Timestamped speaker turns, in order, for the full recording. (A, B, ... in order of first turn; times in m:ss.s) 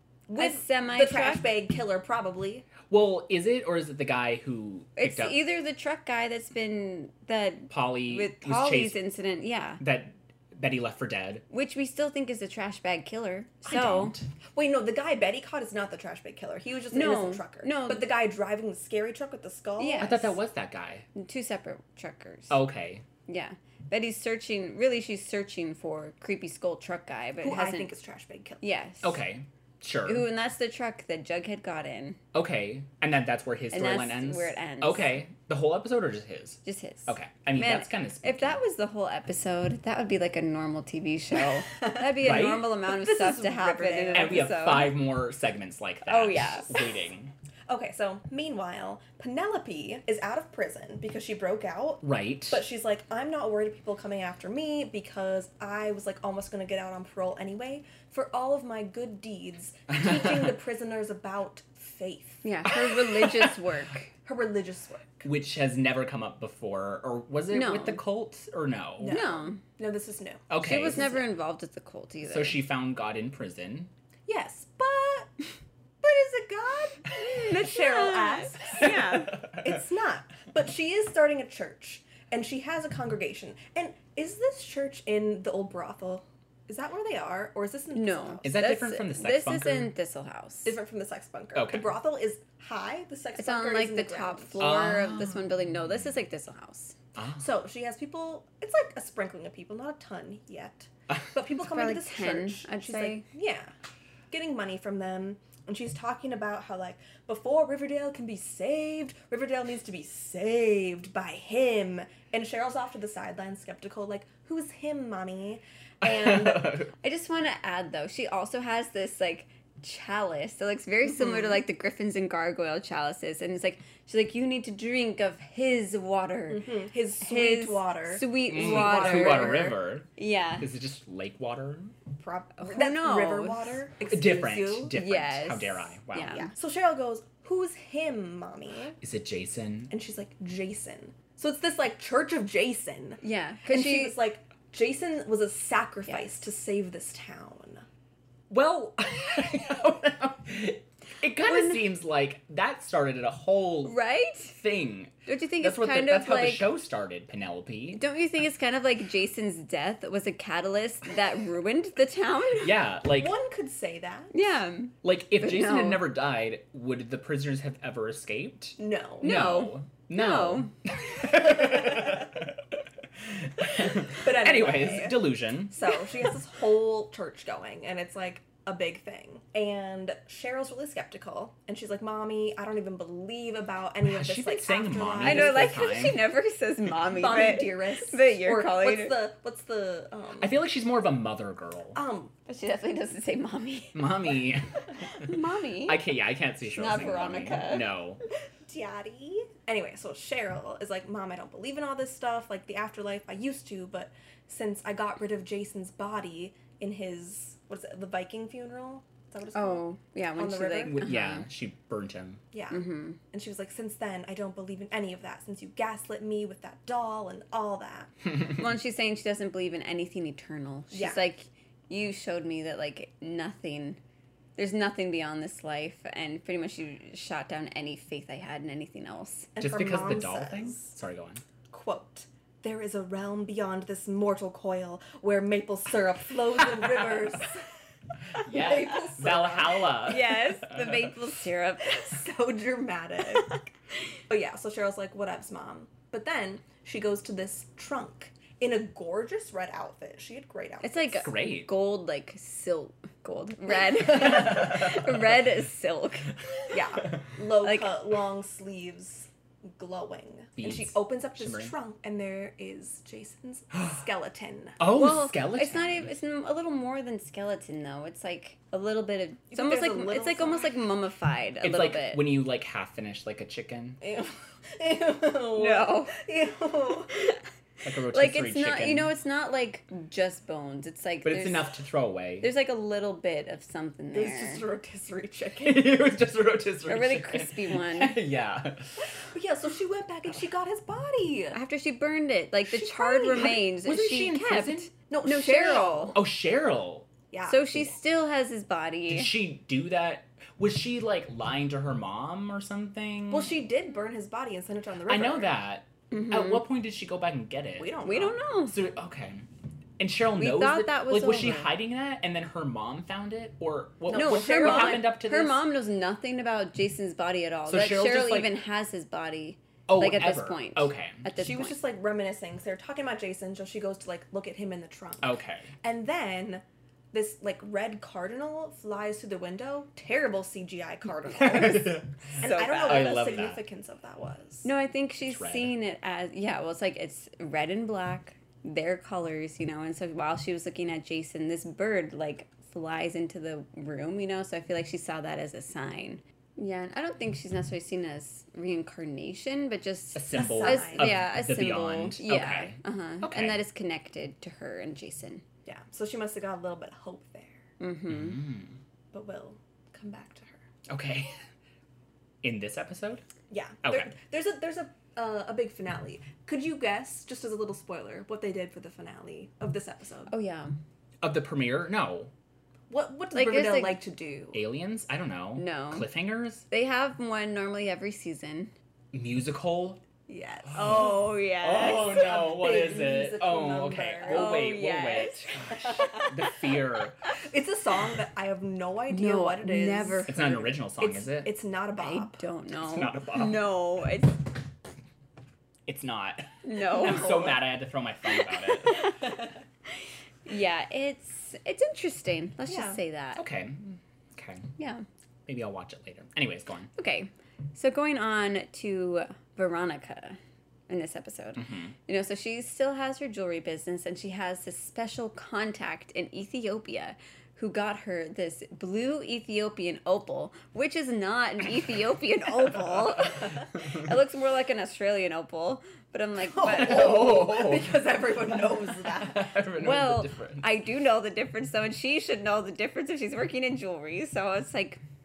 0:00.3-0:02.7 A
0:00.4-0:01.5 B
0:02.9-0:05.4 C
0:05.0-0:09.8 B
0:07.7-0:09.0 C
0:09.8-0:11.4 C
0:11.5-0:14.2 B
0:13.7-0:14.2 C
0:14.5-0:20.3 A
0:16.9-0:18.1 B
0:19.8-0:20.4 B
0:20.0-0:21.1 C
0:21.2-0:22.6 B
0:22.5-0:23.0 C
0:23.3-0:27.9 B
0:27.4-0:28.6 A
0:28.6-0:29.2 B
0:29.0-0:30.3 C
0:30.1-0:32.2 B
0:32.3-0:38.6 C
0:33.7-0:35.2 B
0:36.6-0:45.0 B
0:41.8-0:44.6 A
0:42.2-0:42.7 C
0:44.1-0:47.3 C
0:46.1-0:46.8 B
0:47.7-1:02.5 A
0:52.0-0:52.6 C
0:59.9-1:00.5 C
1:02.4-1:04.1 B
1:02.7-1:03.5 C
1:04.2-1:05.3 A
1:05.2-1:09.3 C
1:07.5-1:08.0 B
1:09.0-1:11.2 A
1:09.0-1:09.6 B
1:10.5-1:11.2 C
1:10.6-1:12.6 B
1:12.2-1:13.9 C
1:14.3-1:15.4 A
1:16.0-1:28.6 A
1:17.2-1:19.4 B
1:18.8-1:19.6 C
1:27.9-1:30.8 B
1:28.4-1:29.9 C
1:30.6-1:34.6 A
1:31.6-1:31.9 C
1:33.4-1:37.0 B
1:34.6-1:35.5 C
1:37.2-1:37.4 C
1:37.4-1:43.7 A
1:41.6-1:43.3 B
1:44.3-1:56.8 A
1:56.0-1:56.9 C
1:57.0-2:10.7 B
2:06.5-2:09.8 A
2:08.5-2:12.0 C
2:12.2-2:15.0 A
2:12.6-2:13.6 B
2:14.1-2:16.5 C
2:14.9-2:16.5 B
2:16.3-2:19.0 A
2:19.0-2:19.9 C
2:19.9-2:27.8 A
2:23.2-2:24.2 B
2:28.5-2:38.0 C
2:31.4-2:31.9 B
2:33.8-2:34.6 B
2:35.3-2:36.7 B
2:37.9-2:42.8 B
2:42.6-2:43.4 C
2:43.1-2:44.3 A
2:44.3-2:46.1 B
2:45.0-2:52.6 C
2:48.8-2:49.4 A
2:49.2-2:50.7 B
2:53.3-2:55.9 C
2:54.1-3:05.8 A
3:04.0-3:06.3 C
3:05.2-3:09.2 B
3:07.0-3:10.6 A
3:10.4-3:12.0 C
3:12.0-3:12.3 A
3:12.5-3:14.2 B
3:13.9-3:18.2 C
3:15.2-3:16.0 B
3:16.7-3:17.9 B
3:18.7-3:29.8 A
3:29.5-3:31.5 B
3:30.4-3:31.1 A
3:30.9-3:32.4 C
3:32.5-3:38.1 A
3:32.7-3:33.2 B
3:38.6-3:44.0 B
3:40.9-3:41.2 A
3:44.6-3:49.5 B
3:49.6-3:50.9 A
3:49.6-3:51.4 C
3:51.7-3:57.6 A
3:58.3-4:00.2 A
3:58.4-4:01.1 C
4:00.0-4:02.2 B
4:02.0-4:03.6 A
4:04.3-4:11.4 A
4:10.8-4:16.4 B
4:11.2-4:11.7 C
4:16.7-4:24.8 A
4:17.6-4:18.0 B
4:20.6-4:21.8 C
4:24.8-4:26.1 C
4:24.9-4:32.4 B
4:29.5-4:30.7 A
4:31.6-4:34.0 C
4:34.0-4:37.4 A
4:35.6-4:36.2 B
4:37.8-4:39.1 C
4:38.1-4:41.7 B
4:41.2-4:42.5 C
4:42.4-4:44.6 B
4:44.1-4:46.0 A
4:45.6-4:48.9 C
4:46.9-4:48.2 B
4:49.3-4:51.6 A
4:51.5-4:56.2 B
4:52.7-4:53.6 A
4:53.4-4:54.9 C
4:55.1-4:56.2 A
4:56.2-4:57.1 C
4:57.3-4:57.7 A
4:57.5-4:59.3 B
4:59.1-5:03.5 C
5:03.3-5:05.6 A
5:05.1-5:07.9 C
5:06.1-5:06.6 B
5:07.8-5:08.4 A
5:08.0-5:08.8 B
5:08.7-5:09.5 C
5:10.0-5:15.6 C
5:10.4-5:11.8 B
5:14.1-5:15.1 A
5:14.1-5:21.8 B
5:17.7-5:18.5 C
5:19.9-5:21.2 C
5:21.4-5:34.7 A
5:25.2-5:25.7 C
5:31.4-5:33.6 C
5:32.4-5:33.2 B
5:34.6-5:55.4 B
5:35.3-5:35.7 C
5:50.2-5:53.6 C
5:50.3-5:51.2 A
5:55.7-5:57.7 A
5:57.8-5:58.4 B
5:58.1-5:58.8 C
5:59.1-6:00.6 A
6:00.9-6:01.4 C
6:02.4-6:03.2 C
6:03.5-6:10.3 A
6:03.8-6:04.1 C
6:10.3-6:10.7 B
6:11.2-6:12.3 C
6:12.9-6:14.6 A
6:13.3-6:14.0 B
6:14.5-6:16.7 C
6:15.6-6:16.1 B
6:16.7-6:18.7 B
6:19.1-6:20.0 C
6:20.3-6:21.2 A
6:20.7-6:27.2 C
6:20.8-6:22.2 B
6:21.8-6:24.6 A
6:24.2-6:26.5 B
6:25.9-6:26.2 A
6:27.4-6:32.4 A
6:29.1-6:30.7 B
6:30.3-6:31.5 C
6:32.0-6:34.4 B
6:32.8-6:33.7 C
6:35.9-6:39.1 C
6:36.6-6:37.6 B
6:38.5-6:39.3 B
6:40.5-6:43.4 B
6:42.7-6:43.0 A
6:43.4-6:44.6 C
6:44.8-6:45.0 B
6:45.5-6:46.9 C
6:47.0-7:07.2 B
6:51.6-6:51.9 C
7:06.5-7:09.5 A
7:06.6-7:08.1 C
7:09.2-7:10.7 C
7:09.8-7:15.0 B